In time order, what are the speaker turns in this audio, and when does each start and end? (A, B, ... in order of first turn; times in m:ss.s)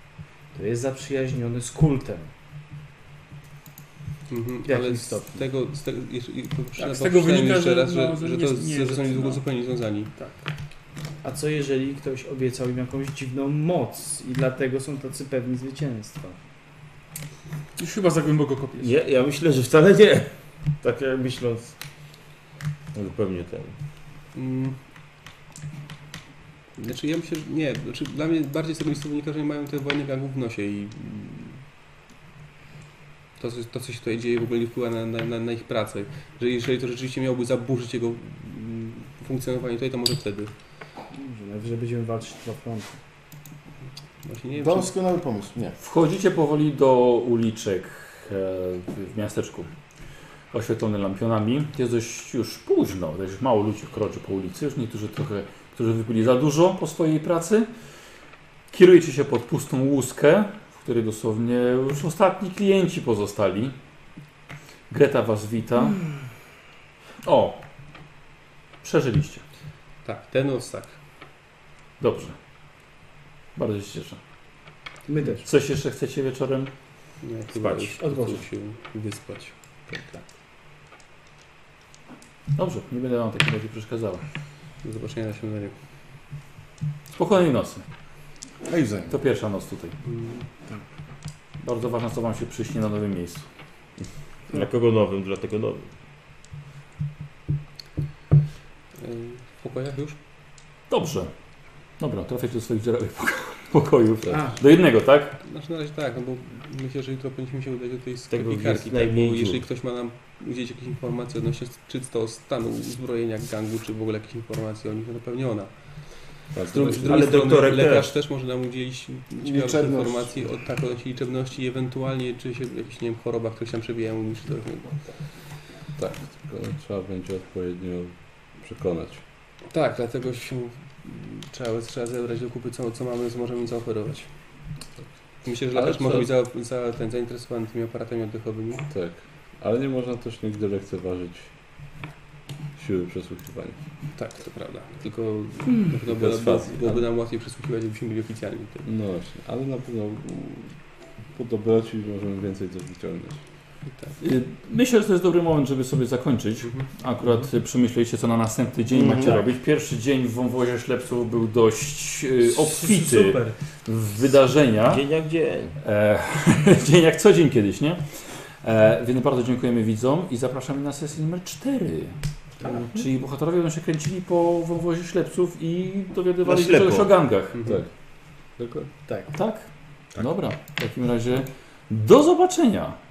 0:00.5-0:02.3 A
0:04.3-0:10.1 B
0:04.6-0:05.4 A
0:06.8-0:09.4 C
0:11.2-0:16.4 A
0:17.8-0:19.0 C
0:18.8-0:21.8 D
0:22.9-0:23.7 D
0:24.3-0:24.8 B
0:26.8-0:31.6 B
0:33.4-0:40.5 B
0:41.1-0:42.9 A
0:44.2-0:44.9 B
0:44.6-0:45.8 E
0:45.8-0:49.7 F
0:50.5-0:57.7 F
0:58.7-1:03.7 F
1:04.9-1:06.0 F
1:07.2-1:07.6 F
1:08.8-1:09.4 F
1:10.0-1:11.0 B
1:12.0-1:12.4 F
1:13.6-1:14.2 F
1:15.0-1:15.4 A
1:15.4-1:16.7 F
1:17.2-1:19.5 B
1:17.7-1:18.4 A
1:22.6-1:24.2 F
1:24.8-1:25.7 B
1:27.2-1:27.8 F
1:28.6-1:29.2 E
1:29.1-1:30.0 F
1:30.0-1:30.5 B
1:31.6-1:33.4 F
1:34.5-1:35.9 D
1:39.0-1:40.2 B
1:40.9-1:41.3 F
1:42.0-1:45.4 F
1:44.3-1:44.6 A
1:45.4-2:05.0 B
1:48.3-1:49.6 D
1:56.5-1:57.5 G
1:57.0-1:58.1 D
1:59.4-2:00.5 E
2:06.0-2:09.2 G
2:09.7-2:14.3 B
2:15.4-2:18.8 B
2:15.7-2:16.3 G
2:18.9-2:21.5 G
2:22.8-2:23.8 G
2:24.1-2:28.8 B
2:26.0-2:27.1 G
2:28.8-2:33.4 G
2:33.8-2:34.2 B
2:34.2-2:45.1 F
2:36.6-2:37.4 B
2:38.9-2:39.4 E
2:42.4-2:43.6 A
2:44.9-2:45.8 D
2:45.8-2:48.0 F
2:48.6-2:52.2 F
2:52.6-2:53.1 A
2:52.8-2:57.6 F
2:56.4-2:57.1 D
2:57.5-2:57.8 B
2:57.6-2:58.9 G
2:59.0-2:59.3 A
2:59.3-3:03.0 F